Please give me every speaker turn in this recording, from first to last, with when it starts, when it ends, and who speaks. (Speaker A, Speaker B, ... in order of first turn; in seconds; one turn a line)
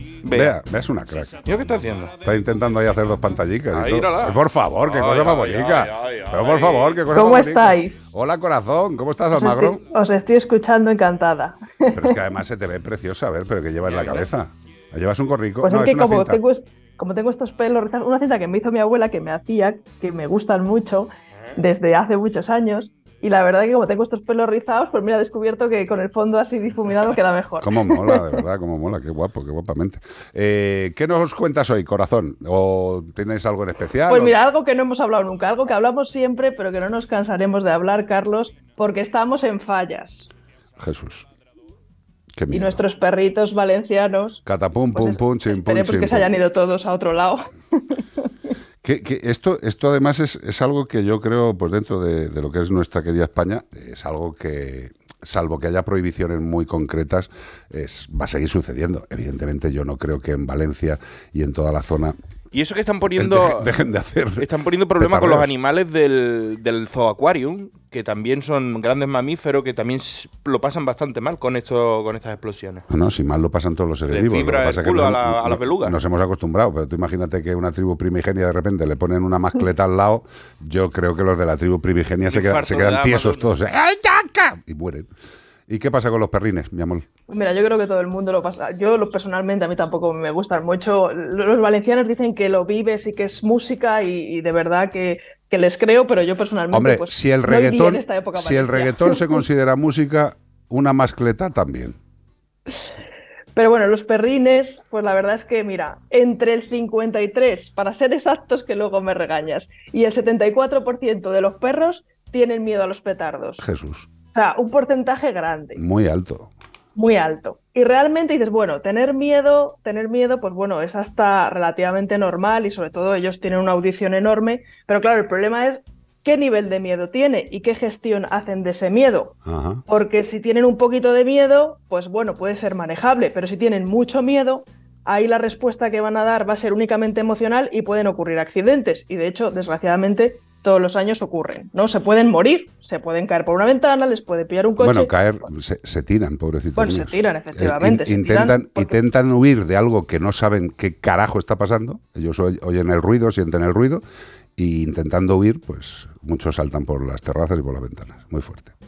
Speaker A: 0.2-0.6
Speaker B: 0.3-1.4
Speaker A: 1.4-2.1
Speaker B: 2.2-9.8
Speaker A: 3.7-7.0
Speaker C: 7.1-8.0
Speaker C: 9.3-12.2
Speaker B: 11.9-16.4
Speaker A: 13.9-14.3
Speaker C: 15.6-28.4
Speaker B: 27.6-34.3
Speaker C: 34.1-40.3
Speaker B: 40.8-41.2
Speaker B: 42.4-42.8
Speaker C: 42.5-44.4
Speaker B: 44.5-46.3
Speaker C: 44.9-48.0
Speaker B: 48.8-62.1
Speaker A: 62.5-63.7
Speaker B: 63.1-65.5
Speaker A: 64.4-72.8
Speaker B: 72.9-85.1
Speaker A: 74.1-76.0
Speaker A: 82.3-83.5
Speaker B: 85.7-87.1
Speaker C: 87.3-99.4
Speaker B: 96.7-102.0
Speaker C: 103.5-113.6
Speaker B: 113.6-114.1
Speaker C: 114.2-115.8
Speaker B: 115.8-116.5
Speaker C: 117.0-129.3
Speaker B: 129.4-129.8
Speaker C: 129.9-145.1
Speaker B: 144.8-154.0
Speaker C: 146.8-149.0
Speaker B: 154.6-158.7